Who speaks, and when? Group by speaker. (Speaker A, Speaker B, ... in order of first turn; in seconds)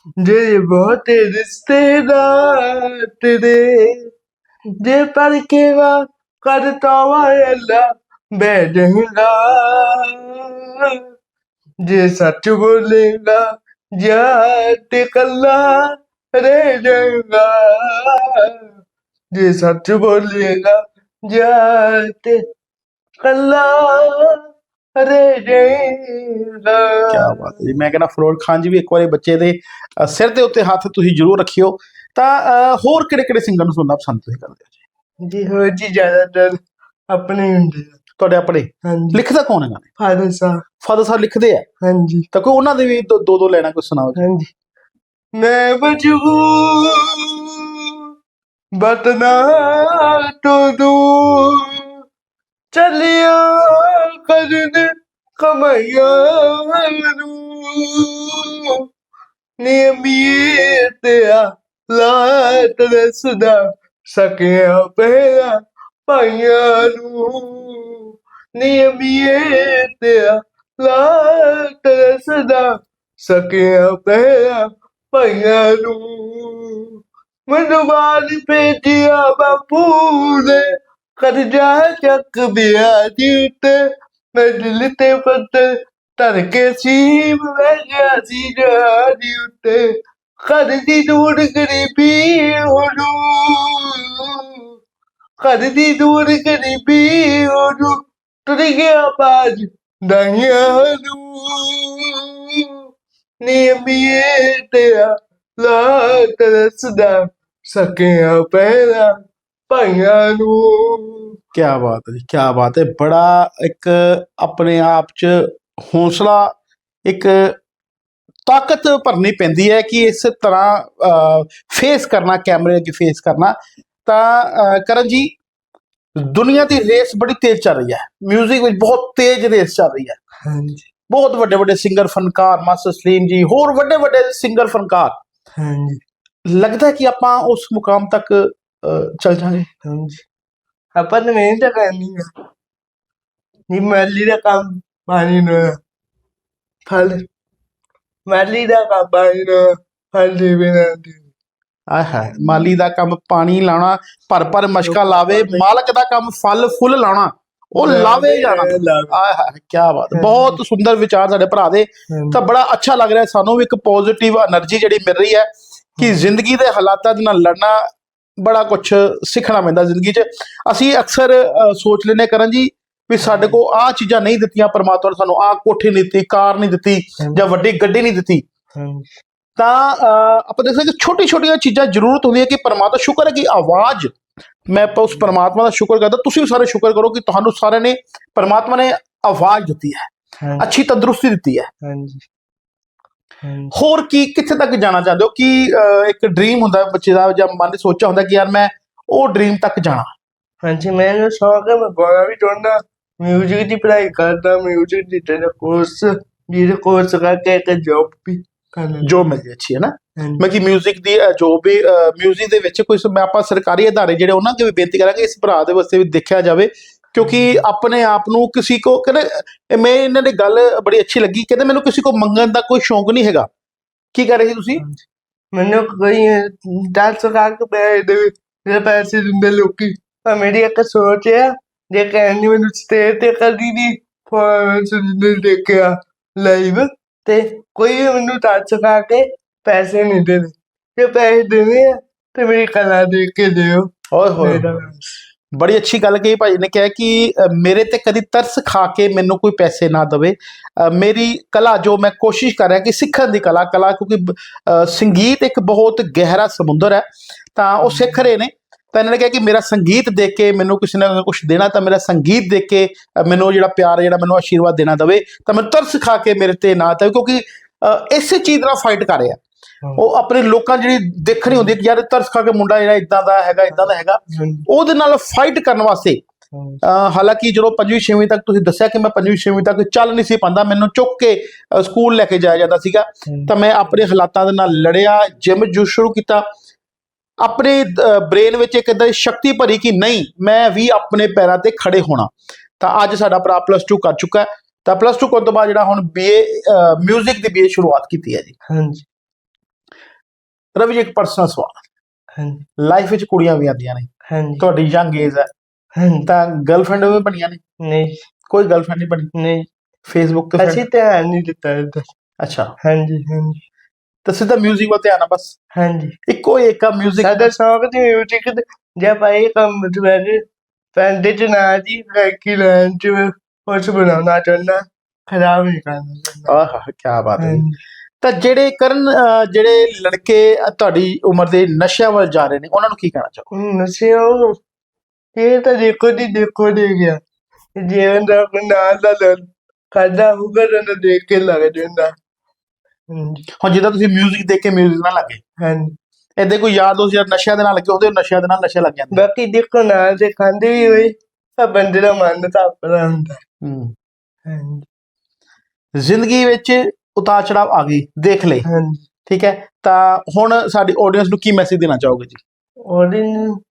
Speaker A: 0.2-4.1, 4.8-11.0, 11.8-13.4, 14.0-18.5, 19.3-22.4, 23.2-24.4, 24.9-27.5, 35.2-36.6, 37.1-38.0, 38.8-39.2, 40.0-40.6, 41.8-42.3, 44.2-44.5, 45.4-47.9, 48.8-51.9, 52.7-58.8, 59.6-80.7, 81.2-83.8, 84.3-89.8, 90.4-94.6, 95.4-97.9, 98.5-102.7, 103.4-109.1, 109.7-111.3, 130.4-130.9, 135.6-136.0, 139.8-140.2, 140.9-142.3, 143.7-145.8, 146.9-147.2, 148.3-151.2, 154.8-155.7, 157.8-159.2, 160.1-160.6, 162.1-162.4, 166.0-166.2, 173.2-173.6, 178.7-179.1, 190.4-190.7, 191.8-192.2, 193.4-193.7, 200.6-209.2, 210.2-210.5, 217.1-217.7, 225.5-245.1, 257.8-258.2, 271.4-271.8, 273.7-274.6, 276.5-276.8, 283.3-284.0, 298.7-299.0, 302.4-302.6, 304.3-304.6, 305.9-306.3, 307.8-308.2, 309.3-309.7, 310.6-312.1, 312.8-313.6, 315.8-316.1, 317.2-320.4, 320.9-326.5, 327.4-327.8, 333.5-334.6, 335.4-337.2, 337.8-342.1, 343.1-343.4, 345.6-345.9, 349.1-353.4, 354.5-354.9, 358.6-359.0, 362.9-363.6
Speaker B: 27.1-34.7, 38.2-39.9, 40.8-41.6, 42.3-44.2, 111.5-116.5, 117.0-117.5, 118.5-123.5, 124.0-125.3, 126.2-130.2, 131.1-135.1, 136.5-139.7, 151.9-165.4, 166.0-167.8, 168.4-178.4, 179.6-184.1, 184.7-191.7, 193.7-200.1, 209.0-223.5, 224.1-224.8, 244.1-244.7, 245.5-269.4, 270.0-276.2, 276.8-286.4, 287.4-292.3, 292.8-298.5, 300.8-301.8, 302.8-304.1, 304.6-305.5, 306.2-307.6, 308.5-309.3, 310.1-310.8, 312.4-312.7, 314.2-315.5, 316.3-317.3, 326.5-327.6, 328.2-333.4, 343.6-345.4, 346.4-349.2, 353.6-353.9, 356.0-358.6, 359.3-362.4